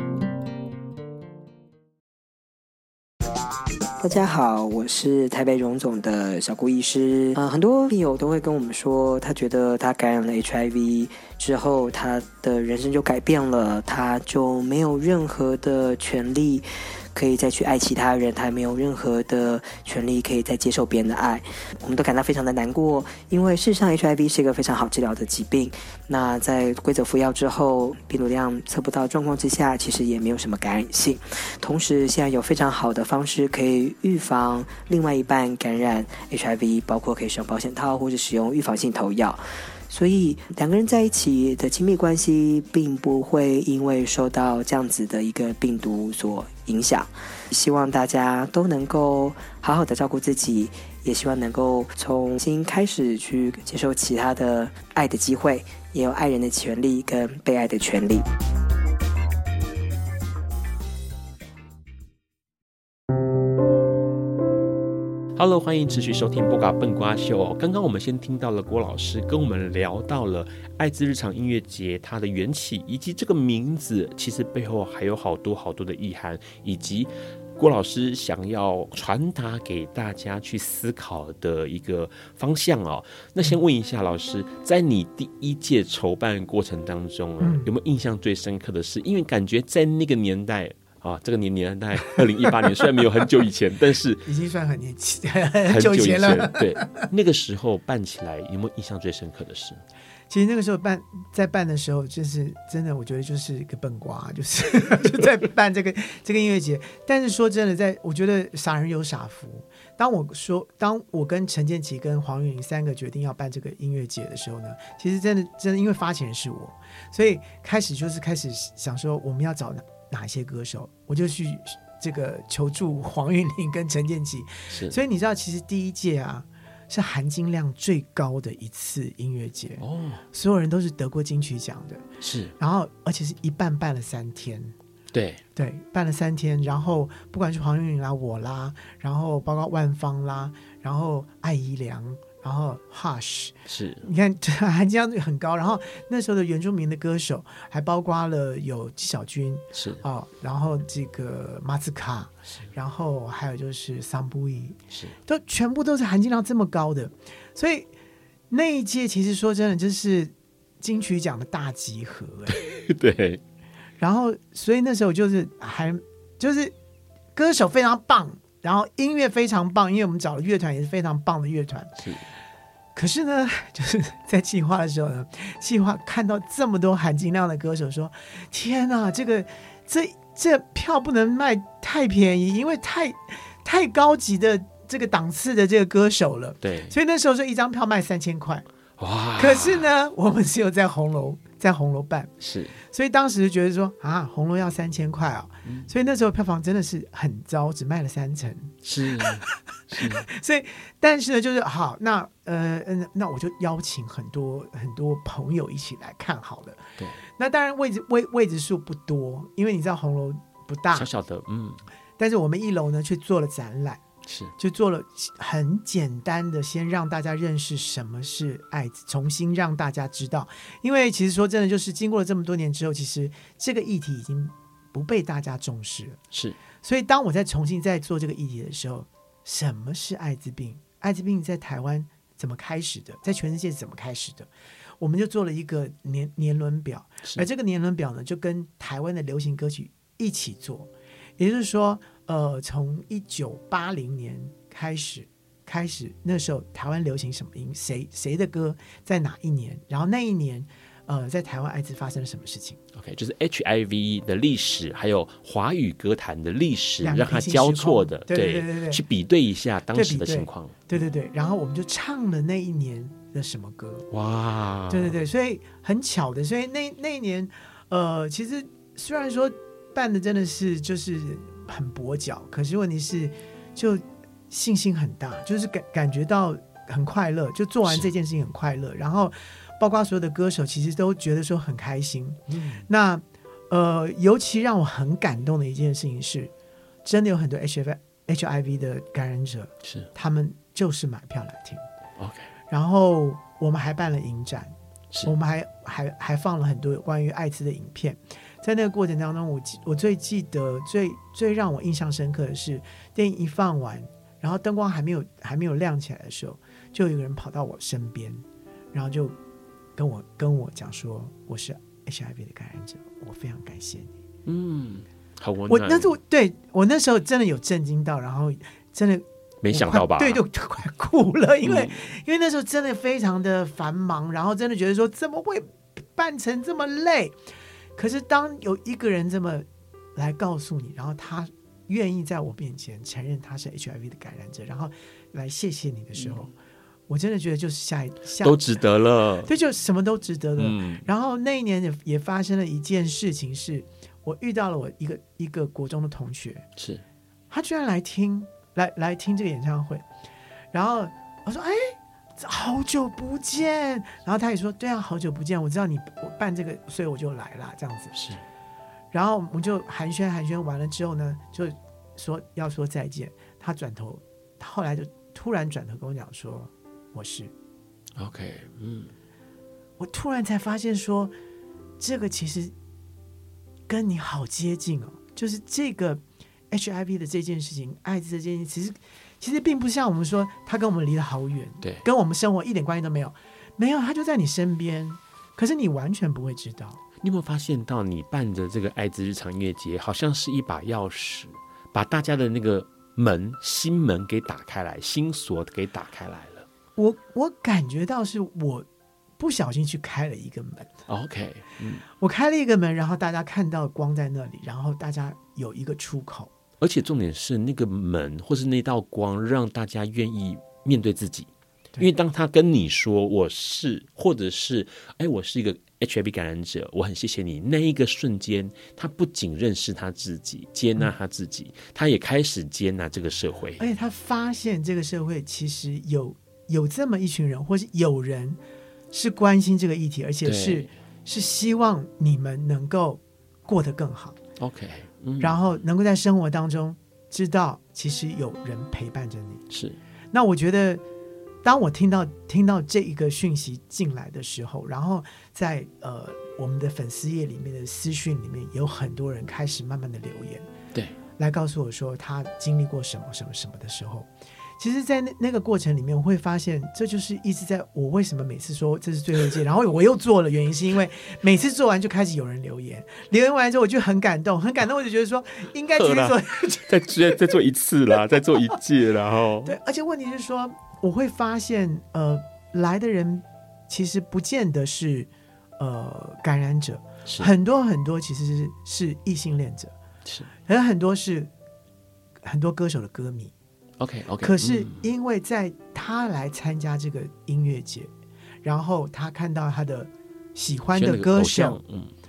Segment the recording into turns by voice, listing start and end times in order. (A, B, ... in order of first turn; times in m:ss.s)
0:04.0-0:58.2 A
1:05.4-1:34.3 B
1:27.4-1:27.7 C
1:34.3-1:37.0 C
1:35.7-1:39.8 B
1:40.3-2:12.1 C
2:04.7-2:05.0 B
2:09.8-2:10.2 B
2:12.2-2:12.5 B
2:12.6-2:14.7 C
2:15.1-2:15.4 B
2:15.6-2:37.9 C
2:23.7-2:24.0 B
2:29.7-2:30.0 B
2:38.5-2:42.6 C
2:42.5-2:43.4 B
2:44.0-2:46.7 C
2:47.4-2:51.9 C
2:53.0-3:08.6 C
3:06.6-3:07.0 B
3:09.0-3:09.8 B
3:09.4-3:31.1 C
3:12.4-3:12.8 B
3:18.8-3:20.3 B
3:30.9-3:31.8 B
3:32.2-3:34.0 C
3:34.3-3:34.5 B
3:34.6-3:46.2 C
3:46.3-3:46.6 B
3:46.8-4:12.8 C
4:12.9-4:20.8 B
4:17.0-4:19.0 C
4:19.9-4:24.1 C
4:24.1-4:25.2 B
4:24.9-4:46.5 C
4:42.5-4:42.8 B
4:47.0-4:51.8 C
4:52.2-4:52.5 B
4:52.7-4:54.7 C
4:55.3-5:09.4 C
5:10.0-5:14.2 C
5:14.5-5:16.1 B
5:15.7-5:27.4 C
5:19.6-5:20.4 B
5:21.6-5:22.0 B
5:28.0-5:36.5 C
5:36.2-5:36.5 B
5:37.1-5:38.8 C
5:38.4-5:39.5 B
5:39.4-5:46.7 C
5:40.6-5:41.0 B
5:46.8-5:47.0 B
5:47.5-5:50.0 C
5:50.7-5:58.1 C
5:58.1-5:58.4 B
5:59.1-6:07.5 C
6:08.2-6:09.1 B
6:10.0-6:11.3 C
6:12.0-6:12.7 C
6:13.9-6:27.0 C
6:27.2-6:36.7 B
6:37.0-6:38.9 C
6:39.4-6:40.9 C
6:41.1-6:42.0 B
6:42.2-6:46.5 C
6:46.8-7:03.8 B
7:03.8-7:08.6 C
7:09.1-7:14.4 C
7:10.4-7:10.9 B
7:14.6-7:15.6 B
7:15.4-7:19.6 C
7:19.7-7:20.0 B
7:20.3-7:21.0 C
7:21.6-7:30.7 C
7:31.4-7:47.5 C
7:46.0-7:49.7 B
7:49.6-7:59.9 C
8:00.7-8:01.5 C
8:02.4-8:03.5 C
8:04.0-8:05.0 B
8:04.4-8:08.1 C
8:08.6-8:11.8 C
8:10.9-8:12.1 B